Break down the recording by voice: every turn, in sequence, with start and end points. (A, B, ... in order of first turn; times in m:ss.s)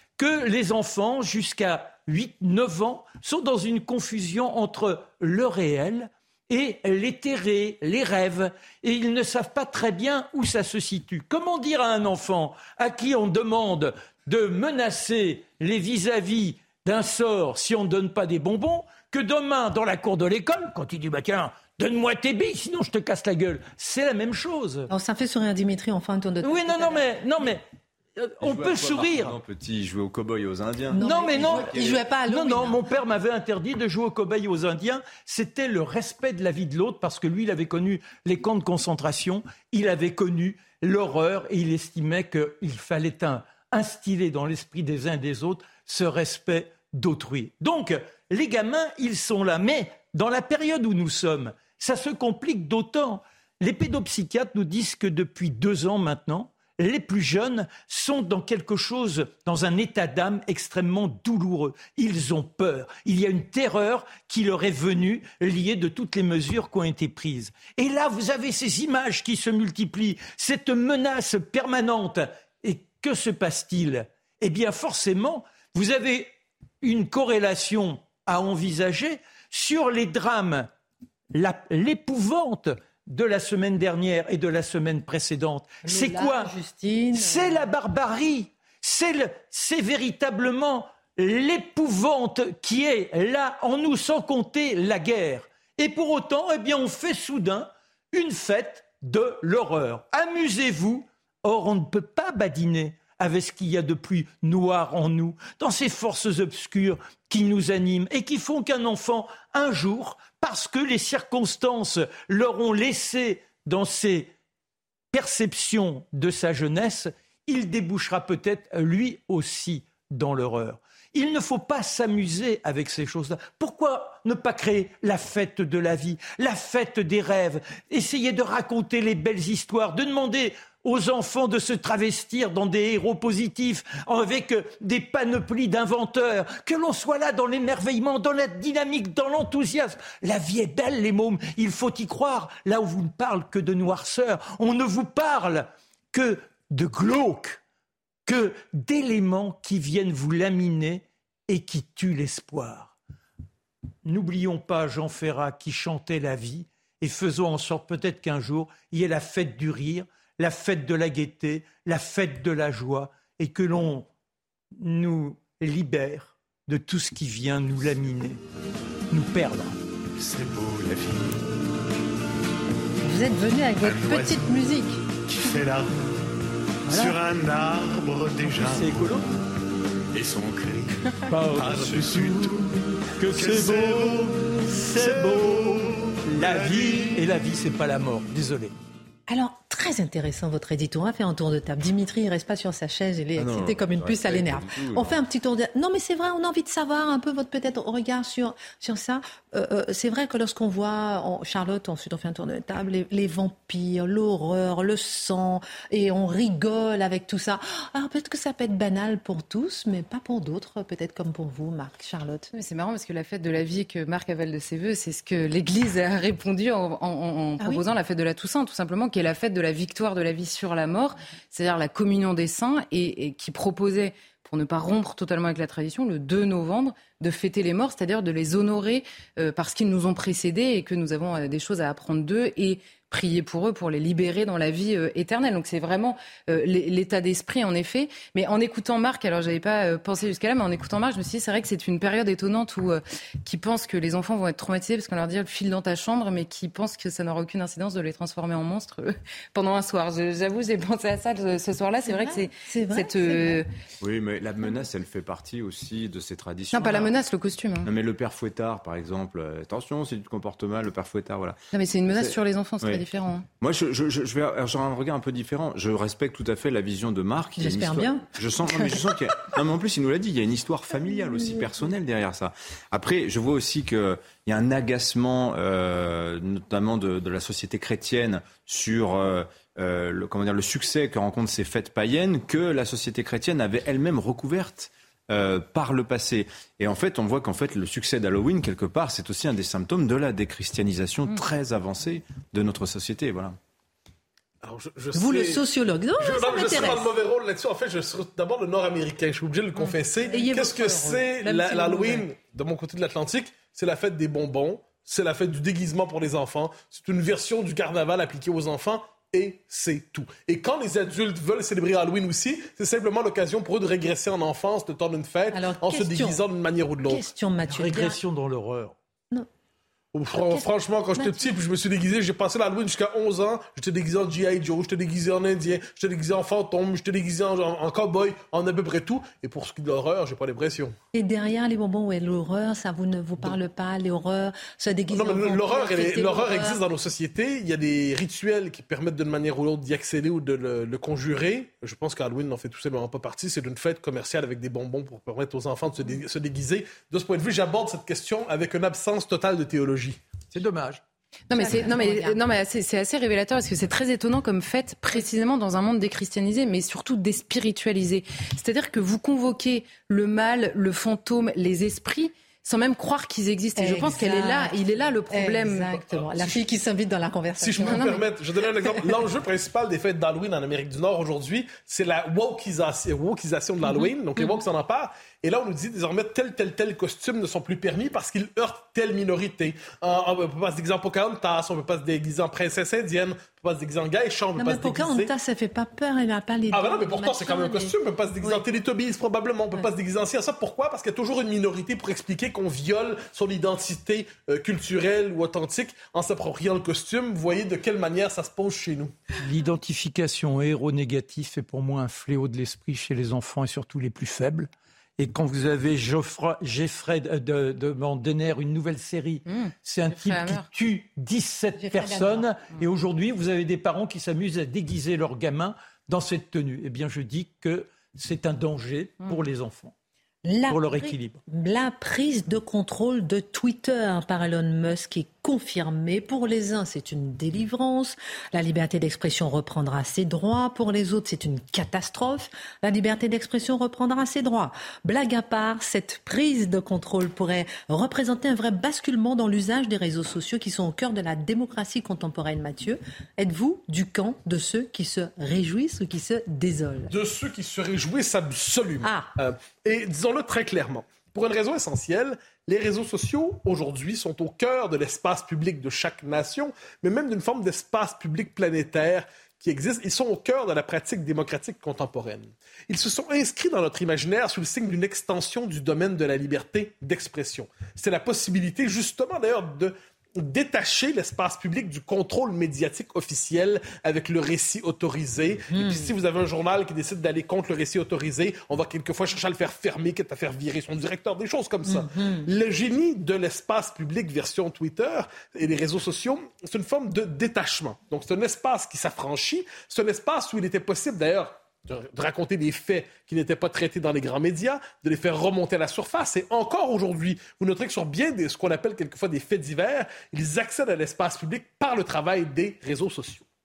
0:00.2-0:24.9 A
0:24.9-0:27.1 B
0:26.4-0:27.6 A
0:28.2-0:29.4 A
0:28.4-0:32.0 C
0:30.9-0:32.8 B
0:31.0-1:20.7 A
1:21.3-1:26.5 A
1:25.8-1:27.6 B
1:27.1-1:54.3 A
1:55.1-2:27.6 A
2:28.3-2:33.0 A
2:34.0-2:44.1 A
2:44.8-2:48.4 A
2:49.1-2:49.8 A
2:50.2-2:51.6 D
2:53.0-2:55.0 B
2:53.8-2:56.0 D
2:56.9-2:57.2 A
2:56.9-2:59.3 D
2:58.4-2:59.3 A
3:00.1-3:07.3 D
3:01.3-3:08.7 A
3:09.3-3:32.5 B
3:13.4-3:15.2 C
3:32.5-4:13.7 E
4:12.0-4:13.6 B
4:14.0-4:17.1 C
4:16.7-4:17.9 E
4:17.8-4:21.6 C
4:21.7-4:23.5 E
4:22.1-4:23.0 C
4:23.6-4:53.6 C
4:27.6-4:29.0 B
4:54.6-4:55.6 F
4:55.1-4:57.1 B
4:56.2-5:17.3 F
4:59.9-5:02.3 B
5:15.5-5:16.4 B
5:17.0-5:18.2 B
5:17.7-5:19.0 A
5:20.1-5:31.0 F
5:20.5-5:21.5 B
5:31.1-5:36.8 B
5:35.1-5:50.2 F
5:50.5-5:51.0 A
5:51.5-6:06.0 E
5:51.5-5:52.4 B
6:03.8-6:08.2 B
6:06.2-6:06.6 F
6:07.6-6:25.3 F
6:24.6-6:28.6 B
6:26.7-6:39.2 F
6:39.4-6:59.9 A
6:49.5-6:50.7 E
6:51.8-6:52.5 B
7:00.4-7:27.1 B
7:00.7-7:01.4 A
7:27.1-8:23.4 F
7:29.0-7:29.3 B
7:55.7-7:56.1 B
8:01.9-8:02.5 B